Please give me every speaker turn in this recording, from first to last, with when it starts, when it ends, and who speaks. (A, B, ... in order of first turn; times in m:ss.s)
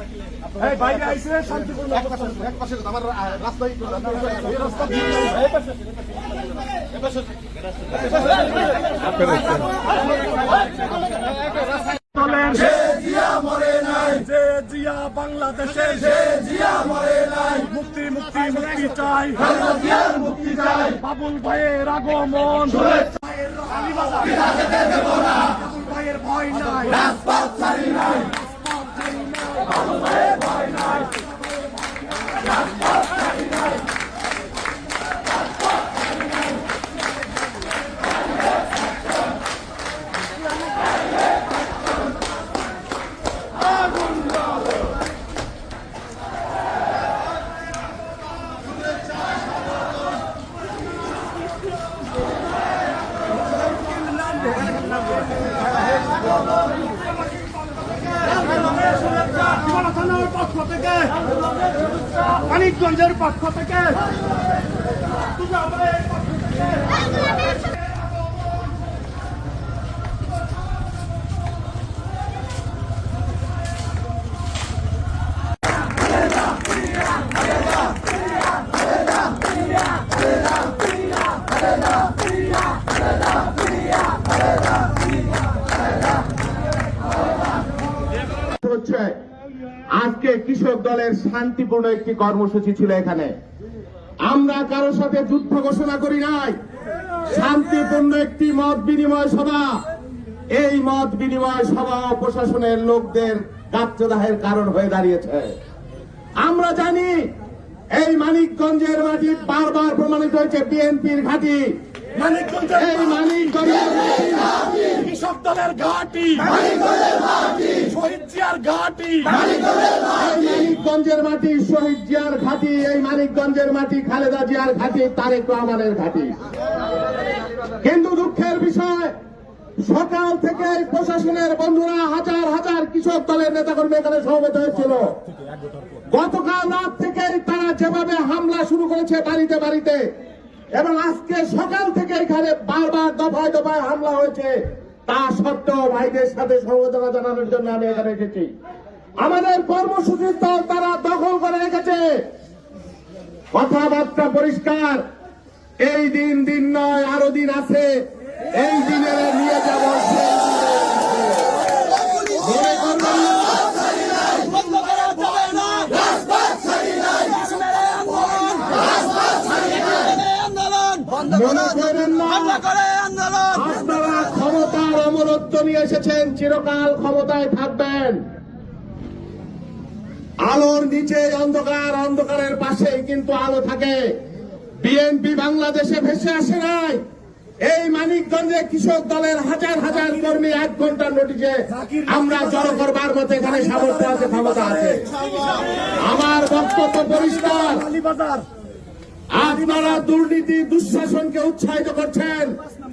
0:00.6-0:02.6 A
0:12.1-0:24.5 A
0:25.4-0:28.3 A
0:28.9-0:29.8 A
0:54.1-0:55.2 A
0:58.5-1:01.2 A
1:02.2-1:04.0 A
1:05.4-1:06.1 A
1:28.6-1:29.2 B
1:30.0-1:33.3 B
1:34.3-1:36.6 B
1:37.3-1:39.8 B
1:40.6-1:45.6 B
1:46.4-1:47.3 B
1:47.9-1:51.8 B
1:52.2-1:53.3 A
1:52.8-1:54.5 B
1:54.7-1:56.8 A
1:57.5-1:59.5 A
2:00.1-2:06.4 B
2:07.8-2:09.2 B
2:09.8-2:15.2 B
2:16.1-2:20.1 B
2:20.7-2:28.5 B
2:29.2-2:32.2 B
2:33.5-2:35.0 B
2:35.8-2:41.5 B
2:42.3-2:43.7 B
2:44.4-2:48.9 A
2:50.3-2:50.9 A
2:51.0-2:52.8 B
2:52.9-2:53.2 A
2:53.4-2:58.2 B
3:00.4-3:04.1 B
3:04.8-3:07.0 B
3:07.6-3:15.1 B
3:11.7-3:12.8 A
3:13.5-3:15.7 A
3:16.0-3:17.9 B
3:16.9-3:18.5 A
3:19.3-3:22.5 B